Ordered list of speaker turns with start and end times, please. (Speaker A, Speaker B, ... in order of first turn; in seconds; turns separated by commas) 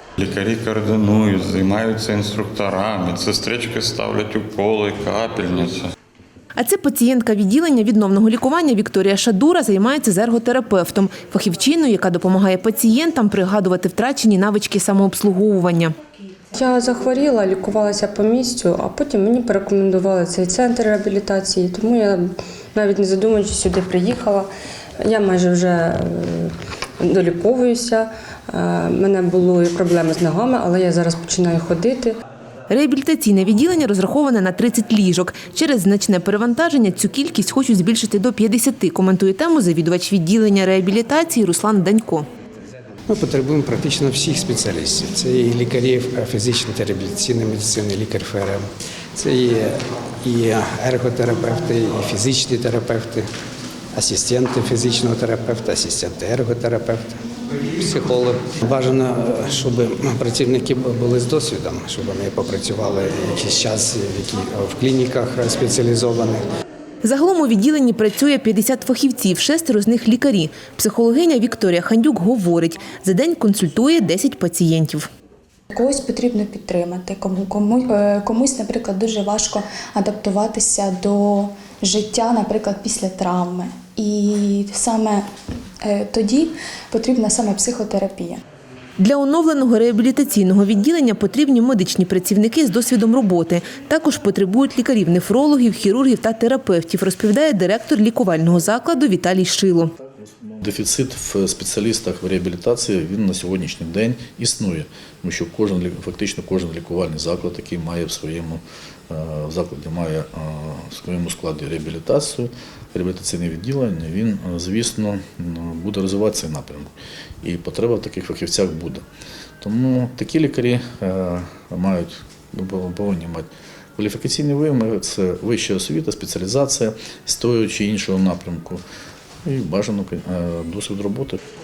Speaker A: 0.2-5.9, Speaker B: 6.6-15.9, Speaker C: 16.5-24.5, Speaker C: 25.0-32.2, Speaker B: 32.7-42.3, Speaker D: 43.1-53.3, Speaker D: 53.9-57.2, Speaker D: 57.8-66.5, Speaker B: 67.0-75.1, Speaker E: 75.7-85.3, Speaker E: 85.8-88.4, Speaker B: 89.0-99.9, Speaker F: 100.4-116.9, Speaker F: 117.4-119.0, Speaker F: 119.6-128.8, Speaker F: 129.5-131.4